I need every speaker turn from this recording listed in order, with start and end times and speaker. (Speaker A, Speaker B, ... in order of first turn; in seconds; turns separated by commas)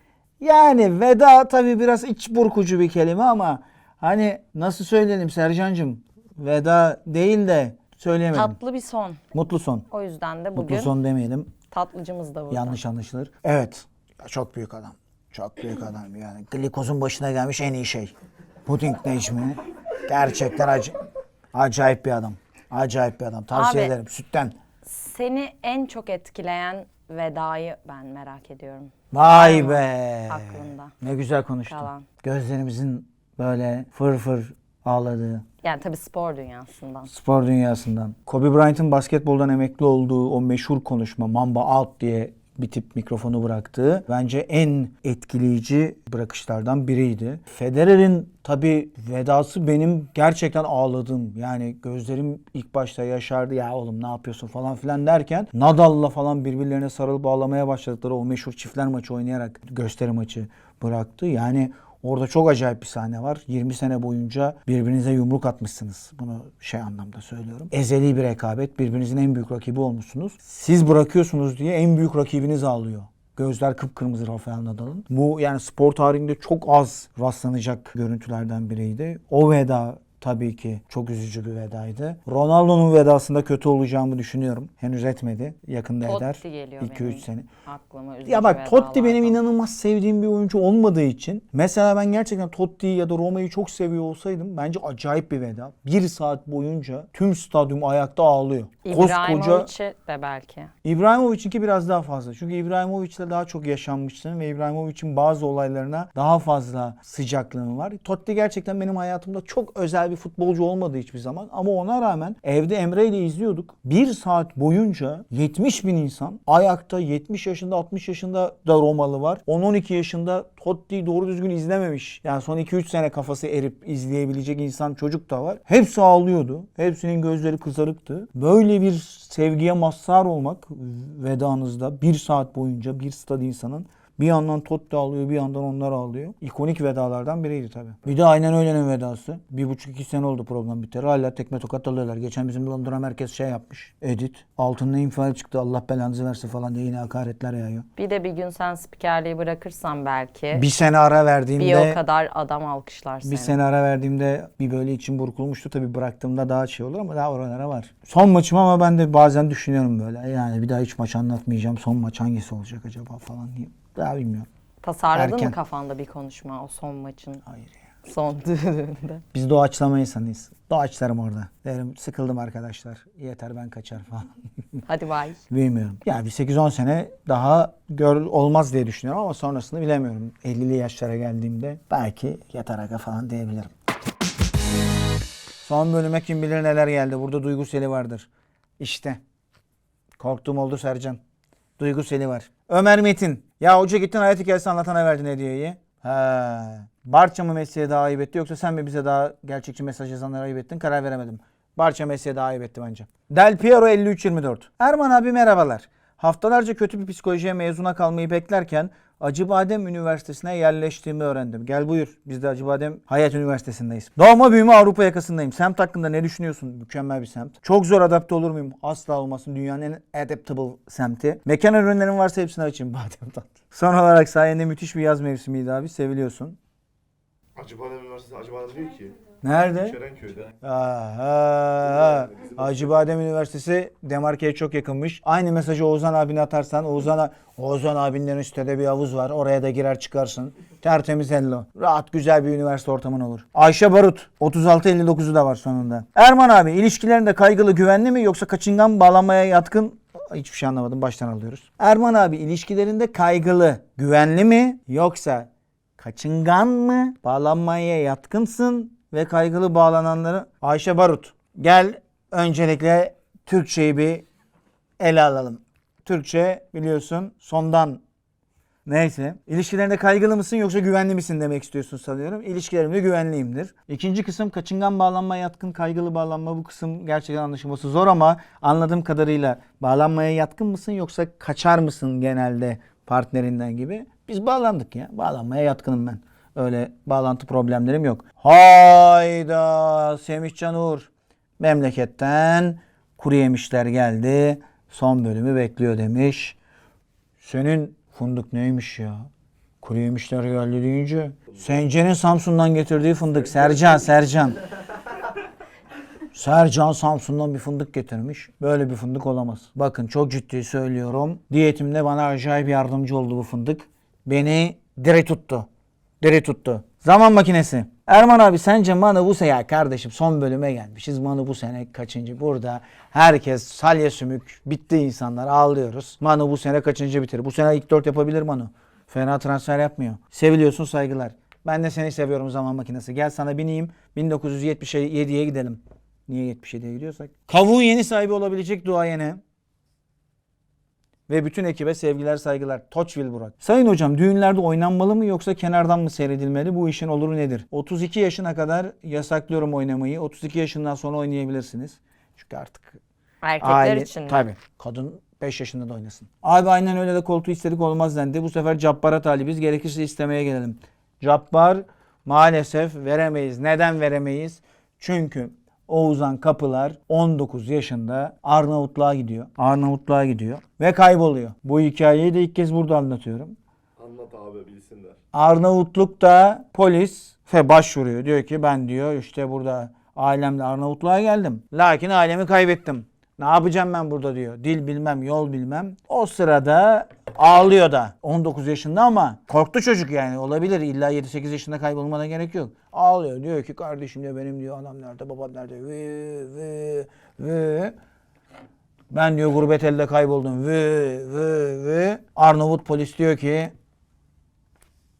Speaker A: 0.4-8.6, Speaker B: 8.3-9.2, Speaker A: 9.3-9.8, Speaker B: 9.9-10.9, Speaker A: 10.5-11.5, Speaker B: 11.7-12.8, Speaker A: 12.5-18.1, Speaker A: 18.6-21.0, Speaker A: 21.5-24.6, Speaker B: 23.5-23.9, Speaker B: 24.8-30.9, Speaker A: 29.1-35.5, Speaker B: 31.7-32.1, Speaker B: 35.6-37.1, Speaker A: 37.1-87.5, Speaker B: 86.0-89.4, Speaker A: 88.2-99.7, Speaker B: 98.8-100.7, Speaker A: 100.8-147.8, Speaker B: 147.9-150.7, Speaker A: 150.5-152.0, Speaker B: 151.6-153.5, Speaker A: 153.2-164.5, Speaker B: 164.8-167.4, Speaker A: 165.1-165.6, Speaker A: 167.5-167.7, Speaker B: 168.0-169.2, Speaker A: 169.3-174.3, Speaker B: 174.9-175.4, Speaker A: 175.5-183.7, Speaker A: 185.6-189.2, Speaker A: 190.2-191.2, Speaker A: 191.8-226.6, Speaker C: 227.6-229.2, Speaker A: 229.4-230.0, Speaker C: 229.8-230.5, Speaker A: 230.6-264.2, Speaker C: 231.9-232.6, Speaker A: 265.0-268.0, Speaker A: 268.9-296.6, Speaker A: 297.4-299.3, Speaker A: 299.8-304.6, Speaker A: 306.3-315.7, Speaker A: 316.2-339.4, Speaker A: 341.3-353.0, Speaker B: 353.4-354.5, Speaker A: 353.6-373.6, Speaker C: 374.0-375.2, Speaker A: 375.3-397.9, Speaker A: 399.1-403.7